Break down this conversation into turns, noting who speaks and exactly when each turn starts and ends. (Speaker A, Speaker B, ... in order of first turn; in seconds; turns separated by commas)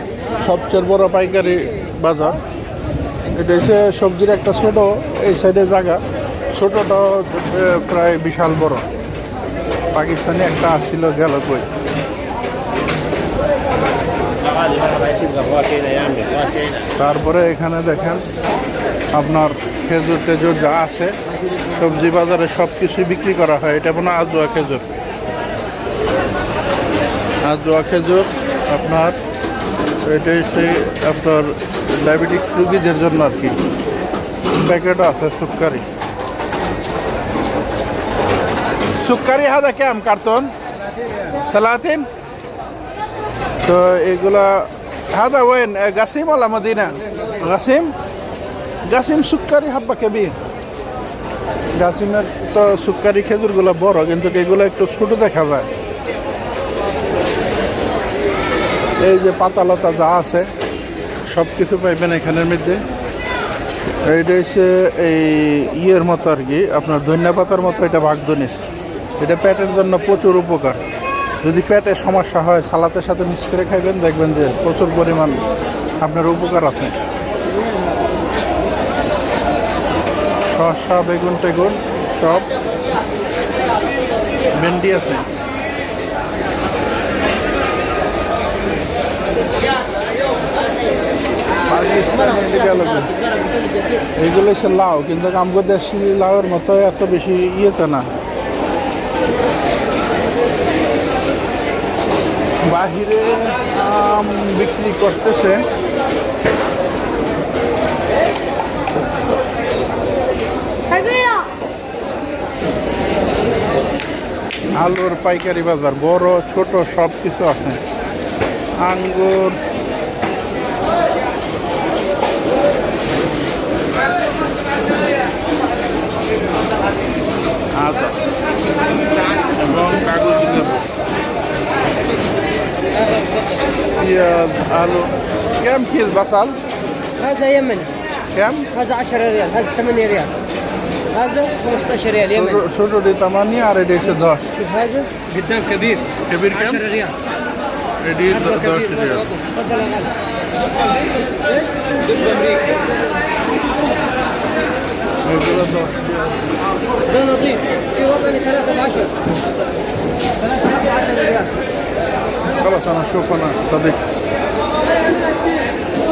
Speaker A: 0.4-2.4, Speaker A: 3.3-8.9, Speaker A: 9.9-11.7, Speaker B: 14.7-16.5, Speaker A: 16.9-18.2, Speaker A: 19.1-24.9, Speaker A: 27.4-29.2, Speaker A: 30.0-33.5, Speaker A: 34.5-35.8, Speaker A: 39.0-40.5, Speaker A: 41.5-42.1, Speaker A: 43.6-47.9, Speaker A: 48.9-50.4, Speaker A: 51.7-55.7, Speaker A: 59.0-60.5, Speaker A: 61.2-62.8, Speaker A: 64.0-68.6, Speaker A: 69.2-70.8, Speaker A: 71.4-75.4, Speaker A: 76.0-77.0, Speaker A: 80.5-82.5, Speaker A: 84.5-85.2, Speaker A: 91.7-93.2, Speaker A: 94.2-98.1, Speaker A: 102.7-105.6, Speaker A: 114.7-117.8, Speaker A: 118.8-119.6, Speaker A: 127.7-128.2, Speaker A: 129.5-130.8, Speaker A: 134.0-136.6, Speaker B: 137.2-137.9, Speaker A: 138.3-138.7, Speaker B: 138.8-140.3, Speaker B: 141.2-142.2, Speaker A: 142.2-144.7, Speaker B: 144.8-146.0, Speaker A: 146.2-147.0, Speaker A: 148.0-149.4, Speaker B: 149.4-149.9, Speaker A: 155.2-156.3, Speaker B: 157.2-157.6, Speaker B: 158.1-158.9, Speaker A: 162.5-164.0